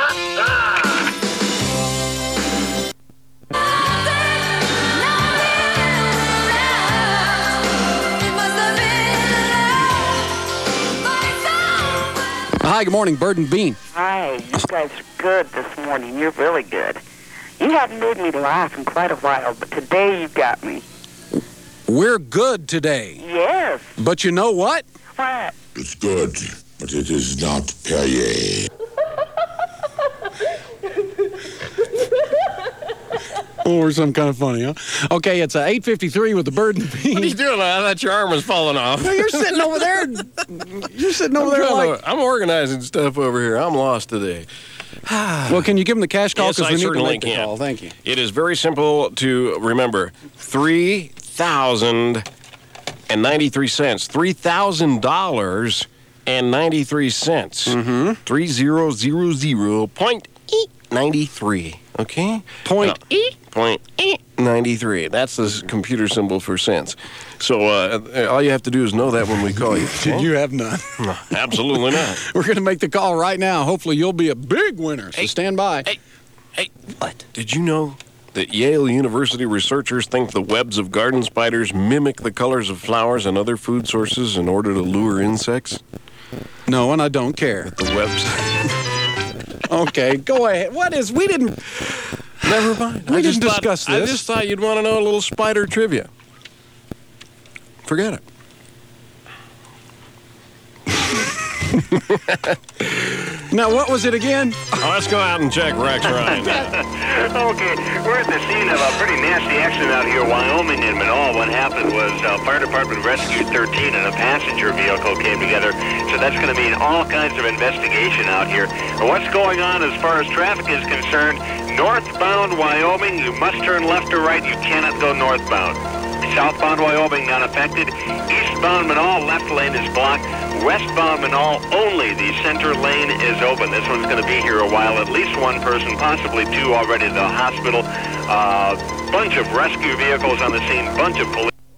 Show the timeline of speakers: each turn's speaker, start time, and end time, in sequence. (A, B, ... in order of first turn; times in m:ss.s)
0:12.6-0:13.8 A
0:14.0-0:16.9 B
0:17.6-0:20.8 B
0:21.9-0:23.2 A
0:23.3-0:23.8 B
0:24.0-0:24.8 A
0:25.8-0:28.6 C
0:33.6-0:37.4 A
0:37.1-0:40.0 D
0:39.0-0:42.0 A
0:41.4-0:44.5 D
0:45.1-0:47.9 A
0:46.4-0:47.5 D
0:48.0-0:52.2 D
0:53.1-1:10.3 D
0:57.7-0:58.2 A
1:02.6-1:03.3 A
1:09.8-1:11.0 A
1:11.0-1:12.2 D
1:11.7-1:15.9 A
1:17.3-1:25.8 D
1:26.7-1:27.7 A
1:27.7-1:28.7 D
1:29.7-1:31.6 A
1:32.4-1:36.1 D
1:33.0-1:34.2 A
1:37.8-1:38.2 D
1:43.5-1:44.7 A
1:44.8-1:46.7 D
1:46.7-2:21.5 E